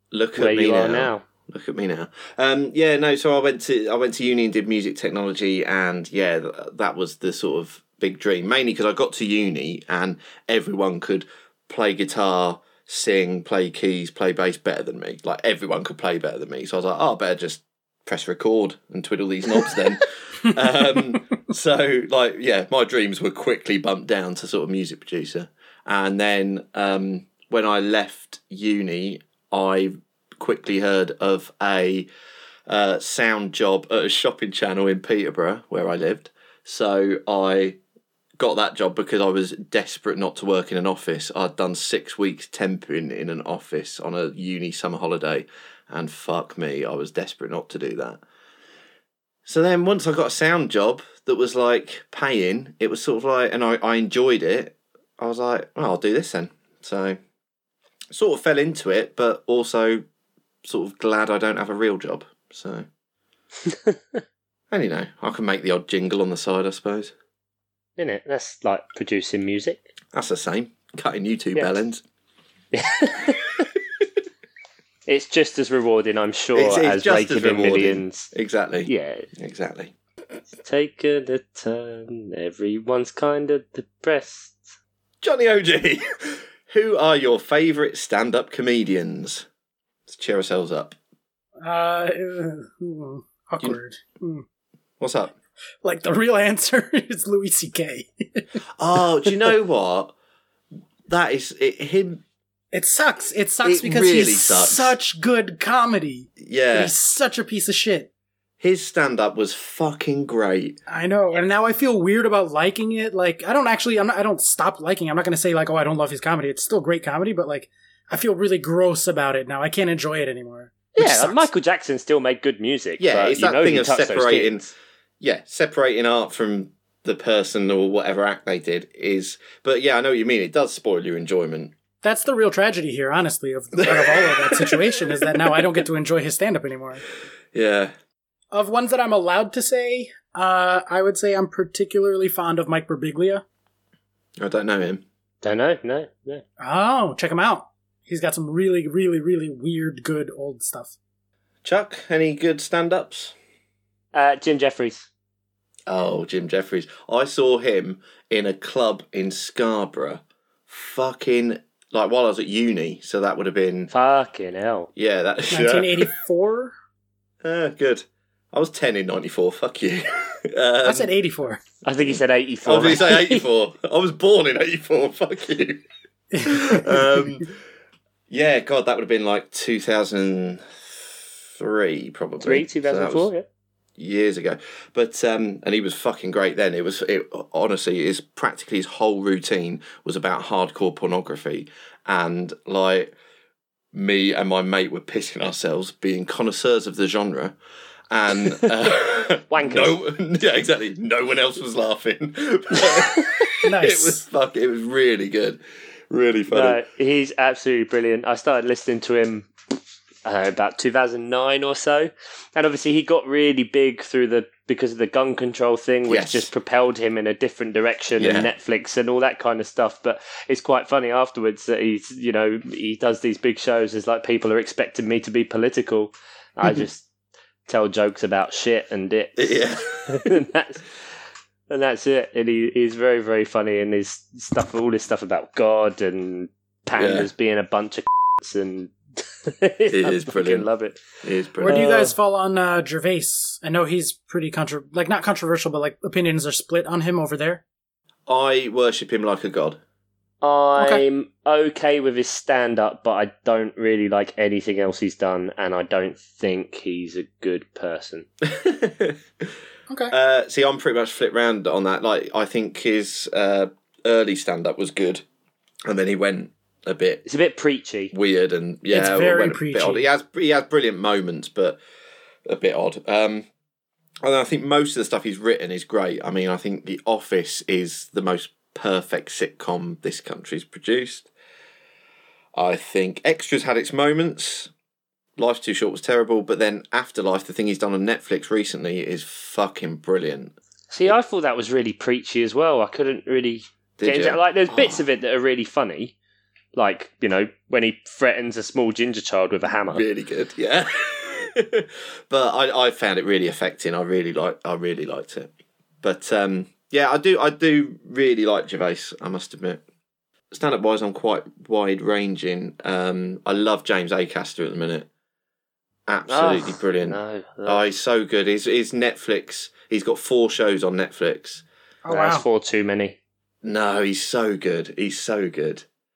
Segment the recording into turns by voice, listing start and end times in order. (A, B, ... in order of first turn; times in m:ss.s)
0:00.1-0:32.1 A
0:00.4-0:01.2 B
0:32.7-0:37.8 A
0:38.4-0:48.2 A
0:49.5-0:57.2 A
0:58.1-1:00.0 A
1:00.6-1:02.9 A
1:03.7-1:04.2 B
1:04.7-1:07.1 A
1:08.0-1:09.9 B
1:10.1-1:12.0 A
1:12.7-1:13.7 B
1:15.1-1:18.3 B
1:16.5-1:19.9 A
1:18.9-1:19.3 B
1:20.6-1:24.7 B
1:25.2-1:29.5 A
1:30.1-1:31.0 A
1:31.6-1:34.4 C
1:35.0-1:35.4 A
1:35.8-1:38.5 C
1:38.8-1:40.1 A
1:41.1-1:42.2 A
1:42.7-1:48.1 C
1:43.6-1:45.0 A
1:46.4-1:46.9 A
1:48.6-1:50.8 A
1:50.9-2:01.5 C
2:01.0-2:04.6 B
2:03.0-2:11.7 A
2:12.0-2:17.0 C
2:13.8-2:15.7 A
2:17.5-2:17.9 A
2:18.5-2:23.4 C
2:24.4-2:25.0 A
2:25.4-2:26.4 B
2:26.6-2:31.0 C
2:31.6-2:33.4 A
2:34.1-2:35.1 B
2:35.9-2:43.9 A
2:43.9-2:44.9 B
2:45.0-2:46.1 A
2:45.5-2:46.7 C
2:47.4-2:51.1 A
2:50.8-2:51.6 C
2:51.8-2:53.4 B
2:52.1-2:55.8 A
2:56.3-2:57.4 C
2:56.4-2:57.5 A
2:58.3-3:03.3 A
3:02.4-3:03.4 B
3:04.0-3:13.1 A
3:13.9-3:17.6 A
3:18.1-3:26.8 A
3:19.5-3:20.0 B
3:23.6-3:24.2 C
3:26.5-3:29.5 B
3:30.2-3:47.1 B
3:36.1-3:36.5 A
3:38.2-3:38.5 A
3:47.7-3:50.9 B
3:49.4-3:50.3 A
3:51.7-4:02.2 B
3:57.0-3:57.3 A
3:59.9-4:00.7 A
4:01.2-4:01.8 A
4:01.6-4:07.6 C
4:08.3-4:09.8 A
4:10.4-4:18.3 B
4:10.8-4:11.0 C
4:18.4-4:19.2 A
4:19.9-4:20.1 C
4:20.1-4:25.2 A
4:25.9-4:27.3 A
4:27.3-4:28.1 B
4:28.1-4:31.8 A
4:28.9-4:30.0 C
4:32.5-4:33.5 A
4:34.2-4:41.3 A
4:42.6-4:44.7 A
4:45.4-4:50.6 A
4:50.9-4:56.1 B
4:54.0-4:55.0 A
4:56.8-5:00.0 B
4:59.9-5:05.5 A
5:06.0-5:09.8 A
5:10.5-5:15.1 A
5:16.1-5:21.6 A
5:16.3-5:17.8 B
5:22.0-5:22.4 C
5:22.1-5:23.2 B
5:23.6-5:25.8 A